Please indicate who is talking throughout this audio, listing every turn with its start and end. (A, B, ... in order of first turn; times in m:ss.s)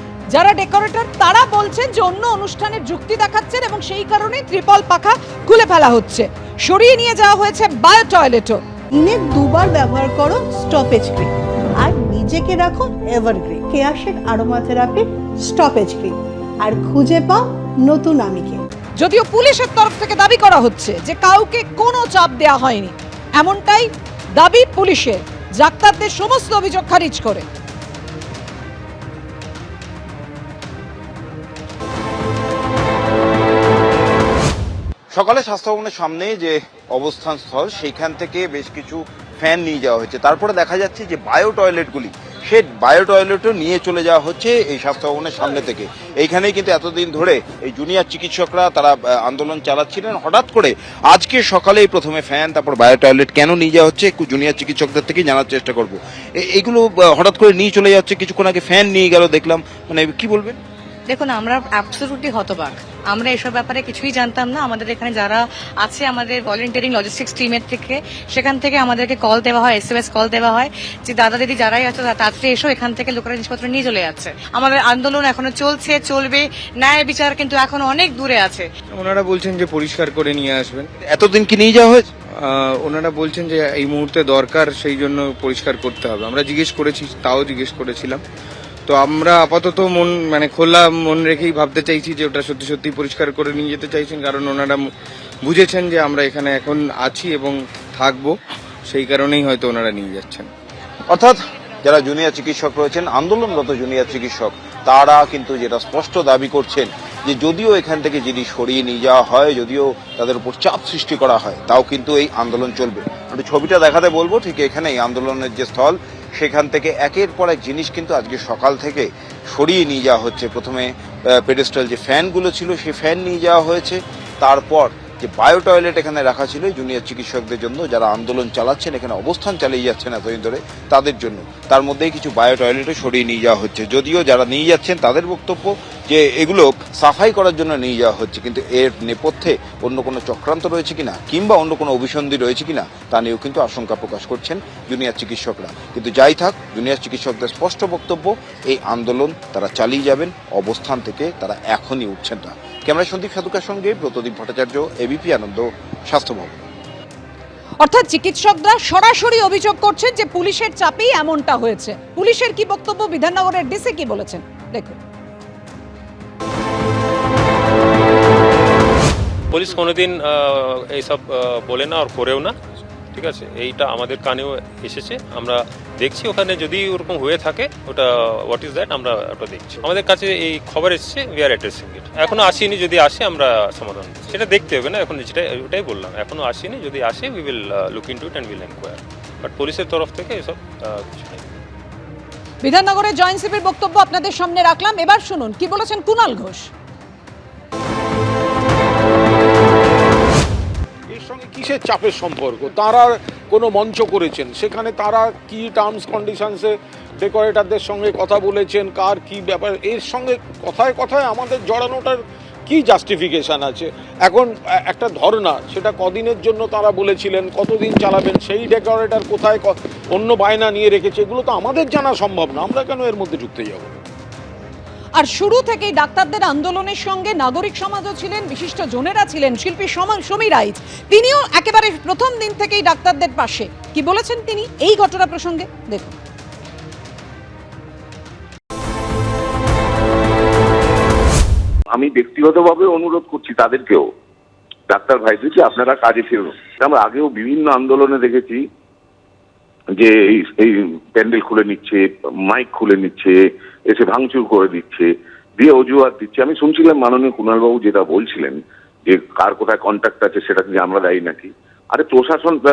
0:00.3-0:08.6 A
0:08.9-0:18.6 B
0:19.0-0:27.4 A
0:35.1-1:00.6 C
1:01.1-1:18.7 D
1:18.9-1:20.9 E
1:21.0-1:22.1 C
1:22.4-1:28.2 E
1:28.9-1:34.9 E
1:35.4-1:40.5 E
1:41.1-2:36.6 C
2:37.8-2:45.0 A
2:49.5-2:52.5 F
2:53.1-3:11.5 F
3:12.6-3:16.7 A
3:21.1-3:44.0 G
3:45.2-3:56.1 A
4:02.0-4:04.0 H
4:05.0-4:08.5 H
4:11.3-4:12.0 H
4:12.5-4:13.3 H
4:14.0-4:15.0 H
4:15.6-4:18.5 H
4:19.1-4:21.4 H
4:22.0-4:22.5 H